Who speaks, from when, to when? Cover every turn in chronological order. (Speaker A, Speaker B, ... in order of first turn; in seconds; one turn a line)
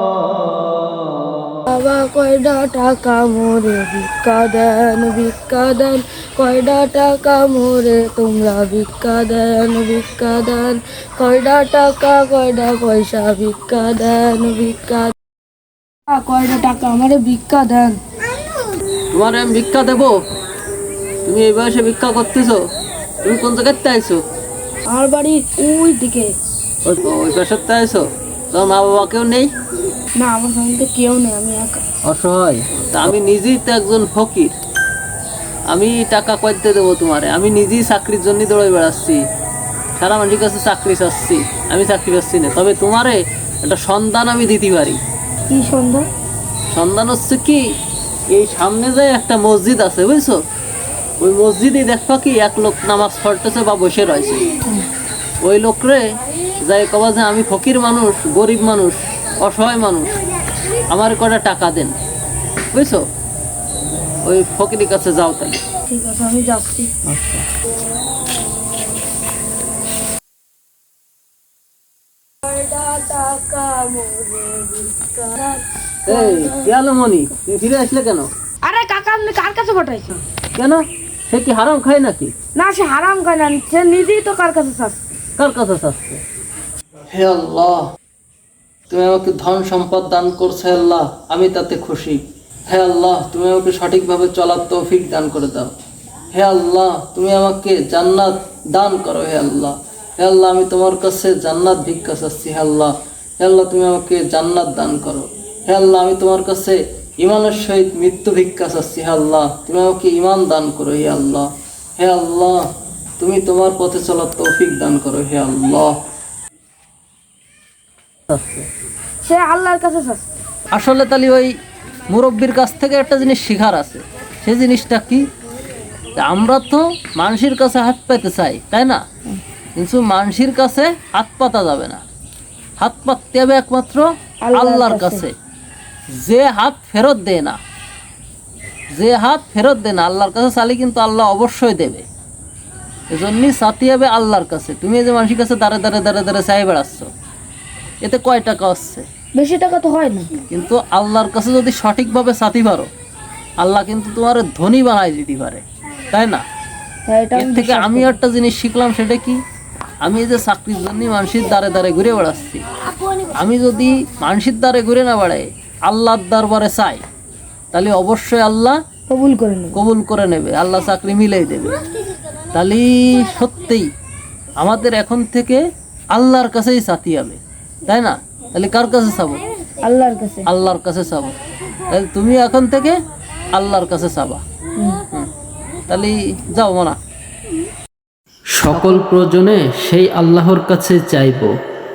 Speaker A: 1.7-15.1
Speaker A: 16.1-18.0
Speaker B: 19.1-20.2
Speaker B: 21.2-22.6
Speaker B: 23.2-24.2
Speaker A: 24.9-26.3
Speaker B: 26.8-29.5
Speaker A: 30.2-31.8
Speaker B: 32.1-34.5
Speaker B: 35.7-39.2
Speaker B: 40.0-45.0
Speaker A: 45.5-46.0
Speaker B: 46.7-47.6
Speaker B: 48.3-50.4
Speaker B: 51.2-54.5
Speaker B: 55.4-56.0
Speaker B: 56.6-60.1
Speaker B: 60.9-61.9
Speaker B: 62.7-63.0
Speaker B: 64.2-65.6
Speaker A: 65.9-66.9
Speaker B: 67.0-67.4
Speaker A: 72.4-76.7
Speaker B: 76.0-78.3
Speaker A: 78.7-80.2
Speaker B: 80.5-82.3
Speaker A: 82.5-85.0
Speaker B: 85.4-86.2
Speaker B: 87.1-87.8
Speaker B: 88.9-95.7
Speaker B: 96.3-112.6
Speaker B: 113.2-115.9
Speaker B: 118.3-118.7
Speaker A: 119.2-120.2
Speaker B: 120.7-121.5
Speaker B: 122.1-125.3
Speaker B: 126.2-129.0
Speaker B: 129.8-132.0
Speaker B: 132.8-135.3
Speaker A: 134.4-135.2
Speaker B: 136.1-137.6
Speaker B: 138.9-142.1
Speaker B: 143.1-147.1
Speaker B: 148.0-149.1
Speaker A: 149.4-150.3
Speaker B: 150.5-152.9
Speaker B: 153.6-156.4
Speaker A: 157.1-158.2
Speaker B: 157.3-159.4
Speaker B: 160.0-162.6
Speaker B: 163.3-167.0
Speaker B: 167.7-168.8
Speaker A: 169.1-169.8
Speaker B: 169.7-171.8
Speaker B: 172.5-173.9
Speaker B: 174.6-179.4
Speaker A: 179.8-180.5
Speaker B: 180.5-181.3
Speaker B: 181.9-183.0
Speaker B: 183.5-184.4
Speaker B: 185.9-187.0
Speaker B: 188.6-191.5